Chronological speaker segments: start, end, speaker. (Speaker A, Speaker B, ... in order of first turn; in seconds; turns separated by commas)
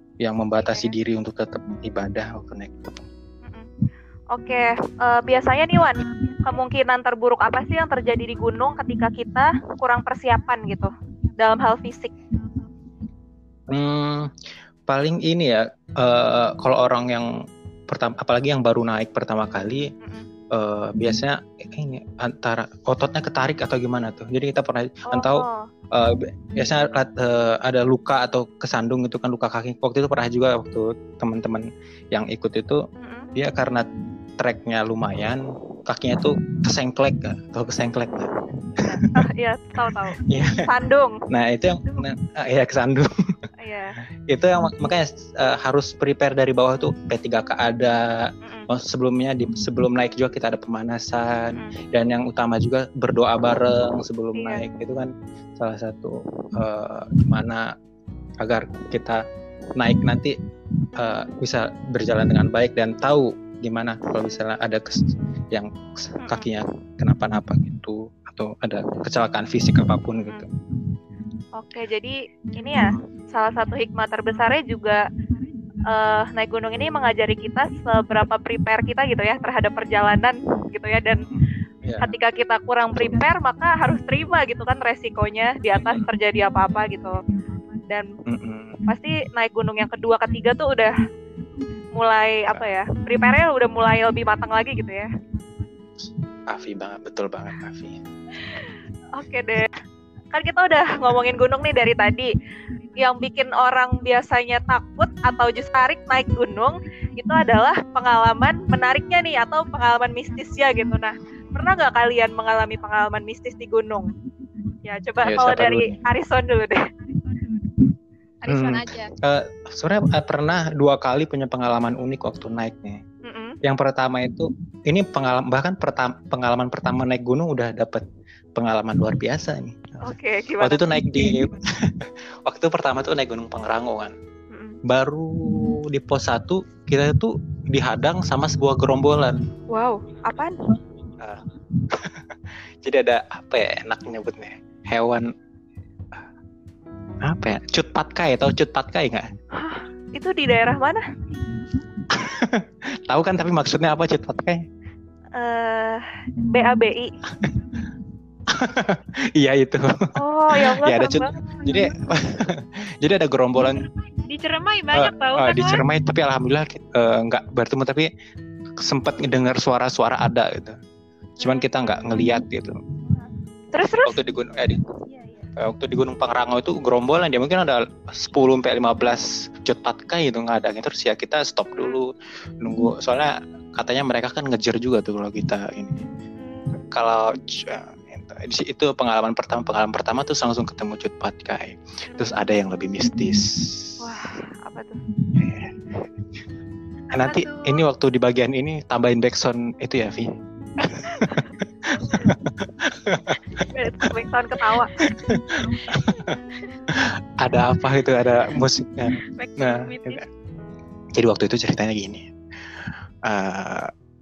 Speaker A: 0.2-3.0, Speaker B: 0.6-0.9, Speaker B: 4.3-12.1, Speaker A: 13.7-14.3, Speaker A: 14.9-17.3, Speaker A: 17.9-19.9, Speaker A: 20.5-33.9, Speaker B: 25.1-25.7, Speaker B: 33.0-33.3, Speaker A: 34.4-39.0, Speaker B: 38.8-41.2, Speaker A: 40.2-40.6, Speaker A: 41.3-43.1, Speaker B: 43.6-44.0, Speaker A: 44.3-57.7, Speaker B: 54.4-54.6, Speaker A: 58.4-59.2, Speaker A: 59.8-60.4, Speaker A: 61.0-70.5, Speaker B: 71.6-75.0, Speaker B: 75.8-81.2, Speaker A: 81.8-82.2, Speaker B: 82.0-87.2, Speaker A: 83.0-83.2, Speaker A: 88.3-88.8, Speaker B: 88.9-90.9, Speaker B: 92.0-95.1, Speaker A: 96.5-98.0, Speaker B: 98.4-99.8, Speaker B: 100.3-102.3, Speaker B: 103.0-114.1, Speaker B: 114.8-116.8, Speaker A: 115.2-116.0, Speaker C: 118.4-119.1, Speaker A: 118.5-123.0, Speaker B: 123.2-123.6, Speaker A: 123.6-134.1, Speaker B: 130.0-131.4, Speaker B: 134.5-134.8, Speaker A: 134.9-139.4, Speaker B: 139.7-140.7, Speaker A: 141.2-145.3, Speaker A: 147.2-149.3, Speaker B: 149.6-151.0, Speaker A: 152.1-154.6, Speaker B: 155.3-157.1, Speaker A: 157.4-157.8, Speaker A: 158.5-159.9, Speaker B: 160.2-161.4, Speaker A: 160.5-163.9, Speaker C: 164.3-165.7, Speaker A: 164.9-168.1, Speaker B: 164.9-165.6, Speaker A: 168.8-170.8, Speaker A: 171.4-172.8, Speaker B: 173.7-174.2, Speaker A: 174.0-174.8, Speaker A: 175.6-186.0, Speaker B: 186.4-186.9, Speaker A: 186.9-194.0, Speaker B: 192.1-192.4, Speaker B: 194.0-195.0, Speaker A: 195.4-195.8, Speaker A: 197.1-203.7, Speaker B: 197.2-197.8, Speaker B: 201.1-201.5, Speaker B: 203.6-205.0, Speaker A: 205.0-206.4, Speaker A: 206.9-210.2, Speaker B: 209.3-210.2, Speaker A: 211.2-212.3, Speaker A: 212.8-213.9